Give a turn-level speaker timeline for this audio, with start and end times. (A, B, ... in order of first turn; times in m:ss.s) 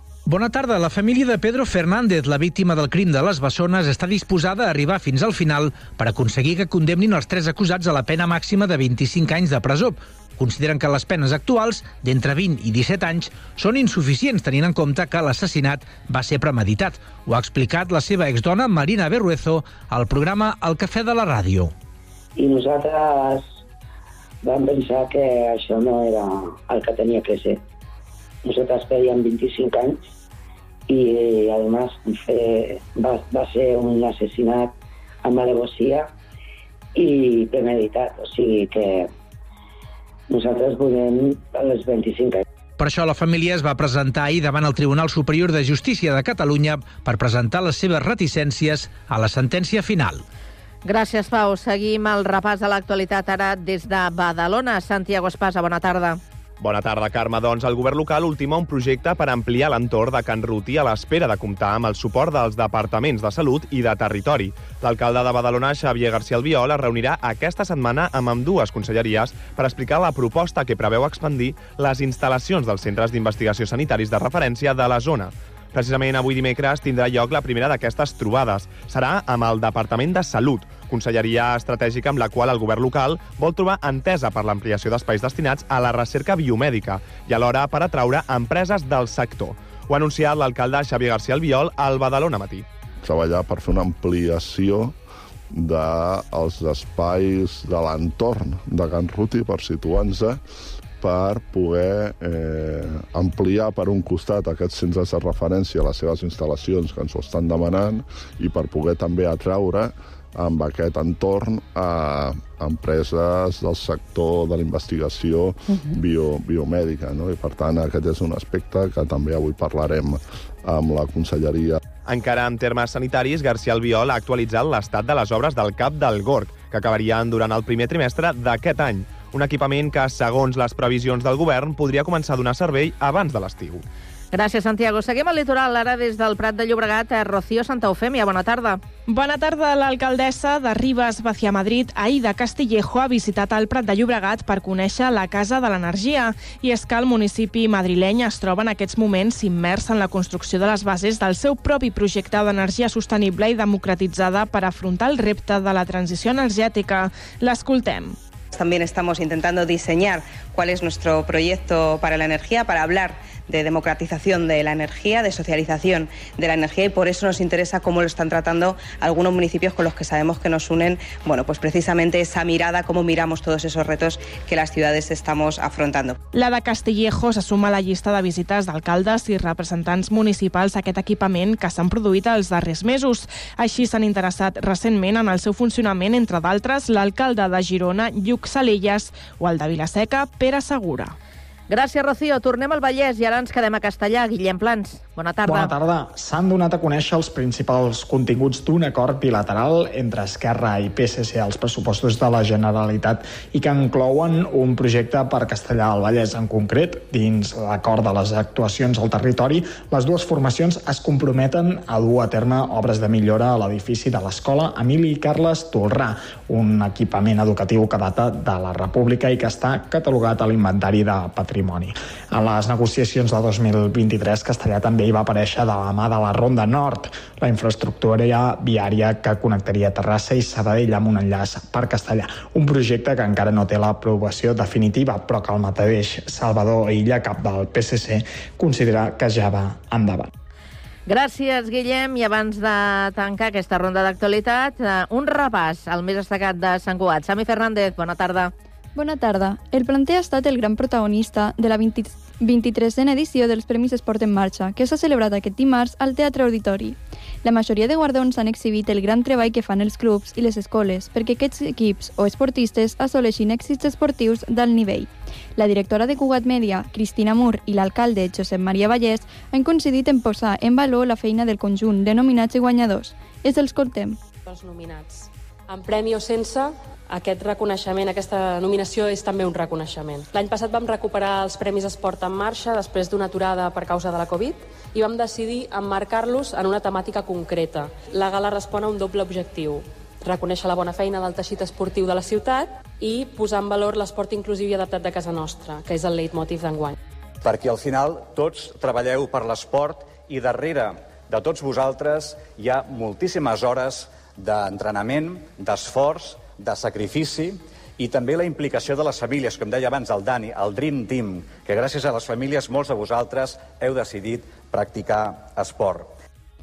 0:00.3-0:21.7 A
0:22.4-0:23.6 B
0:24.4-0:27.6 B
0:28.4-0:30.0 B
0:30.9-0:36.1 B
0:37.0-0:39.1 B
0:40.3-0:42.4 B
0:42.8-0:50.2 A
0:50.8-0:56.2 C
0:56.6-1:32.6 D
1:33.0-1:35.0 E
1:35.5-1:40.4 E
1:41.0-2:01.8 E
2:02.0-2:13.8 D
2:14.3-2:18.8 C
2:19.1-2:38.2 F
2:38.5-2:56.1 G
2:56.3-3:11.1 F
3:11.7-3:15.7 C
3:15.4-4:00.3 H
4:01.1-4:08.5 C
4:08.9-4:34.2 I
4:34.4-4:56.9 J
4:57.4-5:16.1 K